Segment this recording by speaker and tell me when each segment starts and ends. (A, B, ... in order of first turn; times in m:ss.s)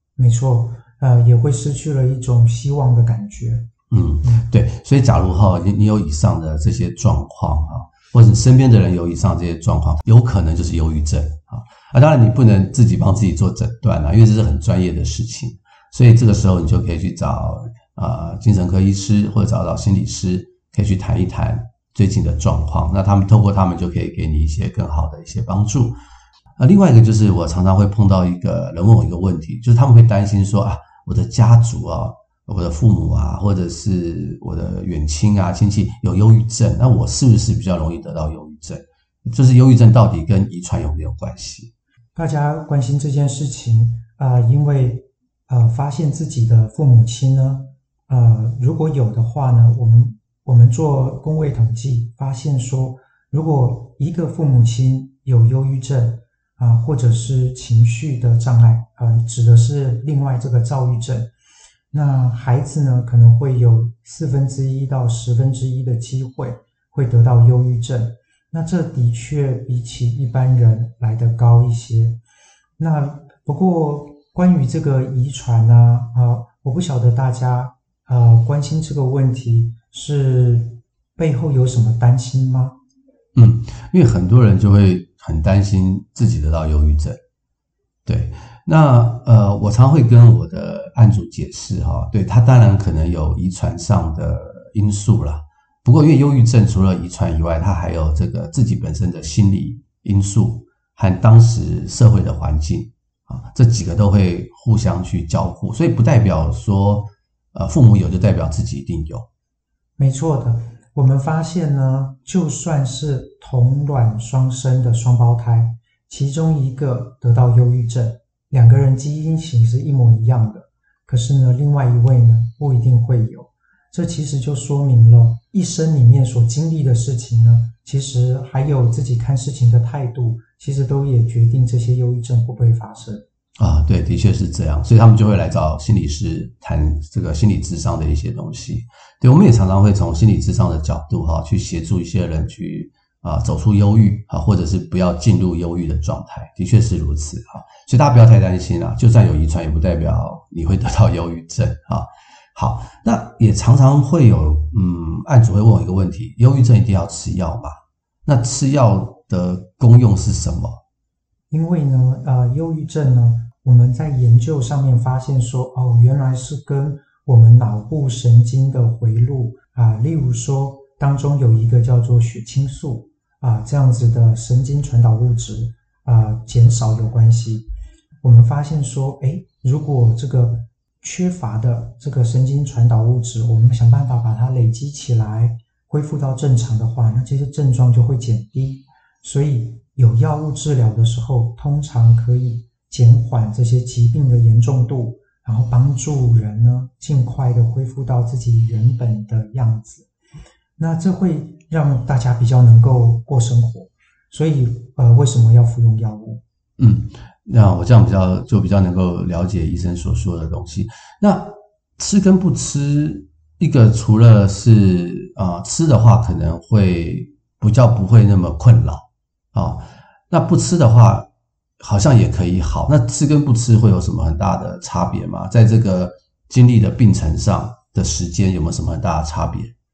0:00.2-0:03.7 A
0:03.9-0:26.0 B
0:04.2-0:04.5 A
0:26.6-0:41.7 B
0:42.1-1:01.3 A
1:01.9-1:12.2 A
1:12.8-1:22.8 A
1:23.3-1:27.2 B
1:28.0-1:49.3 B
1:50.0-2:13.2 A
2:13.6-2:37.7 B
2:38.2-2:40.8 B
2:41.5-2:57.7 A
2:58.2-3:20.1 A
3:20.8-3:26.4 A
3:26.8-3:41.3 B
3:41.8-3:49.7 B